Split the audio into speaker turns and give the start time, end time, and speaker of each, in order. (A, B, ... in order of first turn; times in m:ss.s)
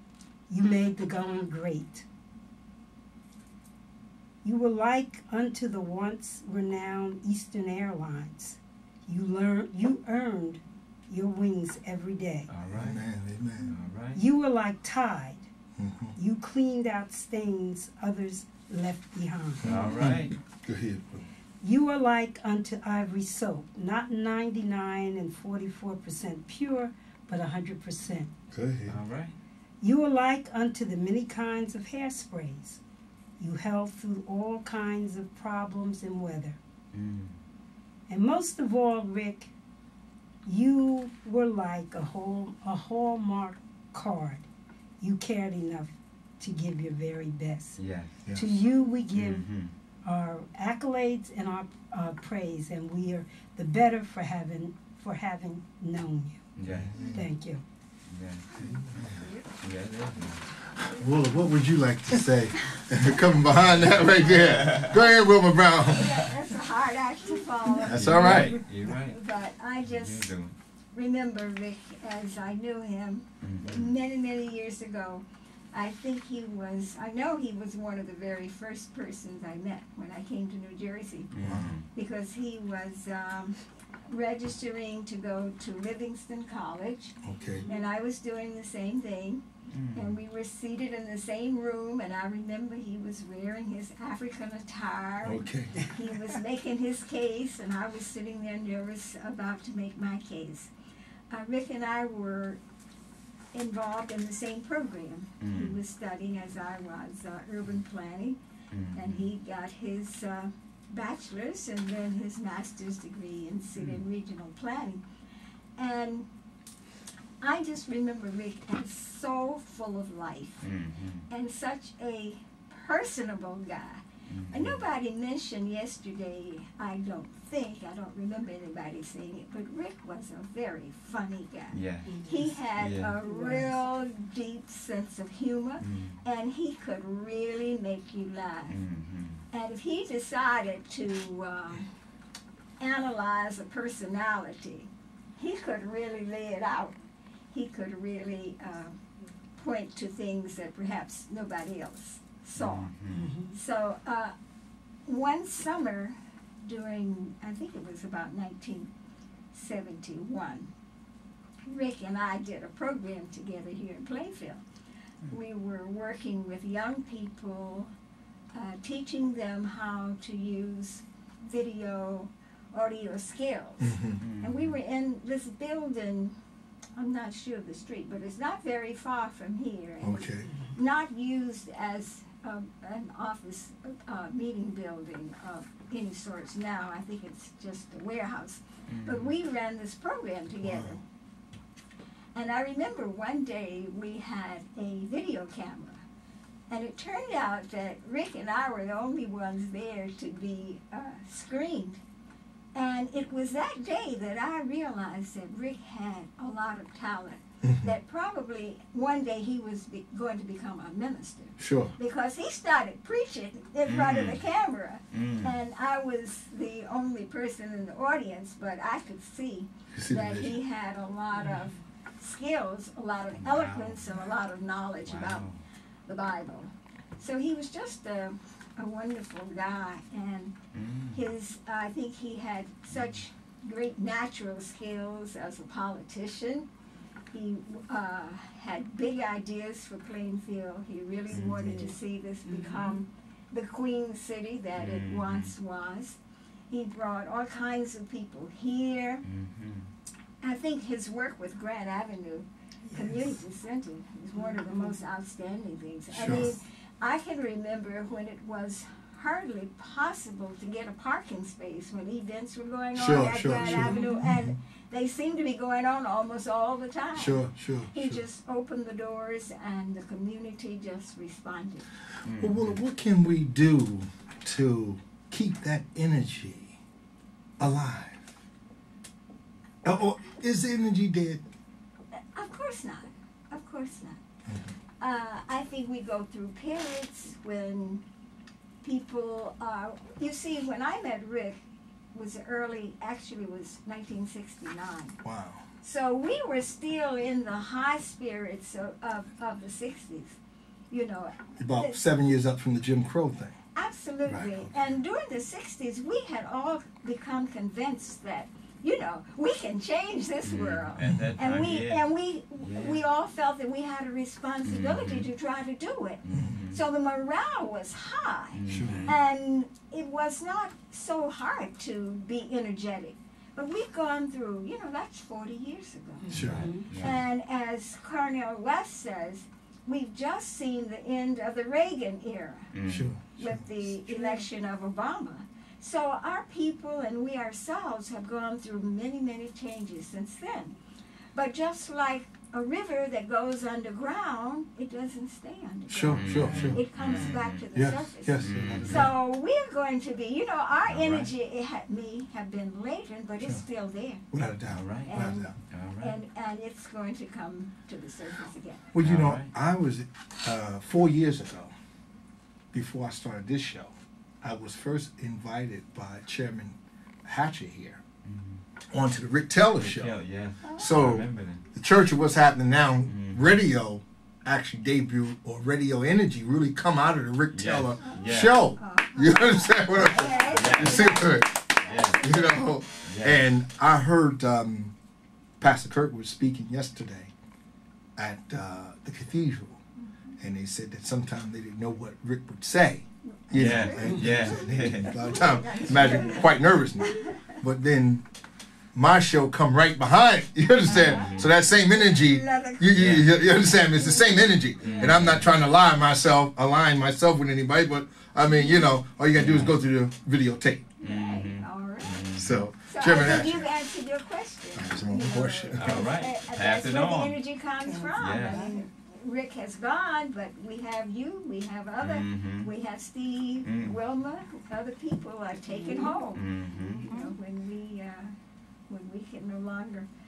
0:00.5-0:02.0 A
0:04.4-0:12.5 A
0:12.5-0:13.0 B
0:12.7-0:13.8 C
0:13.7-0:14.2 B
0:14.1-0:15.5 A
0:15.8-0:16.2 C
0:16.2-0:19.7 A
0:19.6-0:21.3 C
0:19.6-0:20.4 B
0:21.6-0:28.3 A
0:28.5-0:29.0 C
0:28.9-0:29.4 B
0:29.8-0:32.8 A
0:33.4-0:36.6 A
0:36.9-0:37.4 B
0:38.1-0:39.5 A
0:40.4-0:44.5 A
0:45.0-0:47.8 A
0:47.8-0:48.2 B
0:48.3-0:49.4 A
0:49.1-0:49.7 B
0:50.0-0:56.4 A
0:56.6-0:57.2 B
0:56.6-0:57.2 C
0:57.0-0:57.6 A
0:58.1-0:58.5 B
0:58.6-0:59.3 C
0:59.6-1:00.5 B
1:00.7-1:06.3 C
1:03.5-1:05.0 B
1:05.9-1:10.4 D
1:07.8-1:08.6 C
1:07.9-1:09.2 B
1:09.8-1:10.6 B
1:10.9-1:21.3 D
1:13.4-1:13.9 B
1:21.3-1:21.9 B
1:21.4-1:21.7 C
1:21.9-1:40.7 D
1:27.2-1:27.6 C
1:27.4-1:27.8 A
1:29.7-1:30.2 B
1:35.2-1:35.8 C
1:41.3-1:42.6 D
1:43.5-1:48.4 D
1:45.4-1:45.8 B
1:48.7-1:49.3 B
1:48.9-1:55.0 D
1:53.8-1:54.0 B
1:55.8-1:56.3 D
1:57.4-2:00.7 D
2:00.6-2:01.3 B
2:01.3-2:18.8 D
2:04.3-2:04.8 B
2:11.7-2:12.2 B
2:12.1-2:12.6 A
2:12.8-2:13.2 B
2:13.2-2:13.8 A
2:15.8-2:16.2 B
2:18.7-2:19.4 B
2:19.5-2:21.9 D
2:22.8-2:27.0 D
2:27.5-2:29.0 D
2:29.6-2:32.9 D
2:32.6-2:33.3 B
2:33.1-2:33.6 A
2:33.5-2:34.3 D
2:35.1-2:38.9 D
2:39.5-2:40.7 D
2:41.7-2:44.6 D
2:45.3-2:47.9 D
2:48.5-2:56.3 D
2:53.8-2:54.2 C
2:54.2-2:54.8 B
2:57.0-3:11.0 D
3:00.0-3:00.5 C
3:08.9-3:09.4 B
3:10.6-3:11.0 C
3:12.4-3:16.0 D
3:16.7-3:22.0 D
3:22.8-3:45.5 D
3:27.6-3:27.9 C
3:31.6-3:31.9 C
3:33.8-3:34.5 B
3:35.1-3:35.6 B
3:39.9-3:40.6 C
3:41.4-3:41.7 A
3:43.4-3:44.3 B
3:45.0-3:45.6 B
3:46.1-3:50.6 D
3:50.7-3:51.2 B
3:51.1-3:56.7 D
3:52.9-3:53.2 B
3:57.3-4:06.2 D
4:01.3-4:01.9 B
4:01.5-4:03.0 A
4:04.8-4:05.5 B
4:06.7-4:09.2 D
4:09.2-4:09.9 B
4:10.4-4:31.9 D
4:12.9-4:13.4 A
4:14.3-4:15.0 A
4:16.1-4:16.6 C
4:22.9-4:24.6 C
4:23.7-4:24.3 A
4:27.1-4:28.2 C
4:32.2-4:32.8 B
4:32.4-4:36.8 C
4:37.6-4:38.3 C
4:39.8-4:41.4 C
4:42.4-4:44.2 D
4:44.5-4:44.7 C
4:45.0-4:48.0 D
4:48.8-4:51.6 D
4:52.1-4:55.2 D
4:55.2-4:55.6 C
4:55.8-5:00.4 D
5:00.9-5:02.0 D
5:01.6-5:03.6 C
5:03.7-5:26.3 D
5:04.3-5:04.7 C
5:10.4-5:13.0 B
5:11.0-5:11.4 C
5:14.6-5:15.3 B
5:16.2-5:16.8 B
5:16.3-5:16.6 C
5:18.5-5:19.1 B
5:18.7-5:19.1 C
5:26.2-5:26.9 A
5:26.3-5:26.7 C
5:26.3-5:27.2 B
5:26.9-5:32.7 D
5:32.7-5:33.1 B
5:32.9-5:33.7 C
5:33.4-5:40.8 D
5:34.1-5:34.4 A
5:41.3-5:54.2 D
5:45.9-5:49.1 C
5:46.1-5:47.7 B
5:46.4-5:46.7 A
5:48.4-5:49.1 B
5:50.8-5:51.3 B
5:54.3-5:55.6 C
5:54.7-5:55.2 B
5:55.1-5:58.9 D
5:55.7-5:56.2 B
5:58.9-6:01.7 C
5:59.0-5:59.5 B
6:02.7-6:08.0 C
6:08.2-6:08.6 B
6:08.9-6:10.2 C
6:09.8-6:11.7 B
6:10.8-6:24.9 C
6:13.1-6:13.6 B
6:17.5-6:18.6 B
6:18.0-6:22.6 D
6:20.5-6:21.3 B
6:21.8-6:22.5 B
6:23.0-6:23.4 B
6:25.6-6:27.3 C
6:28.2-6:29.8 C
6:30.0-6:30.4 D
6:30.4-6:38.2 C
6:33.3-6:37.5 D
6:33.5-6:35.2 B
6:38.9-6:50.9 C
6:40.8-6:45.2 D
6:41.1-6:41.5 B
6:43.0-6:43.3 B
6:44.8-6:45.5 B
6:48.4-6:48.9 D
6:49.3-6:49.8 B
6:51.0-7:08.3 D
6:51.0-6:52.7 B
6:52.4-6:53.7 C
6:54.8-6:56.0 C
6:55.7-6:57.4 B
6:57.9-6:58.8 A
6:58.1-6:58.7 B
7:02.0-7:02.7 B
7:03.6-7:04.0 B
7:05.7-7:06.2 A
7:06.3-7:07.2 B
7:08.9-7:10.1 D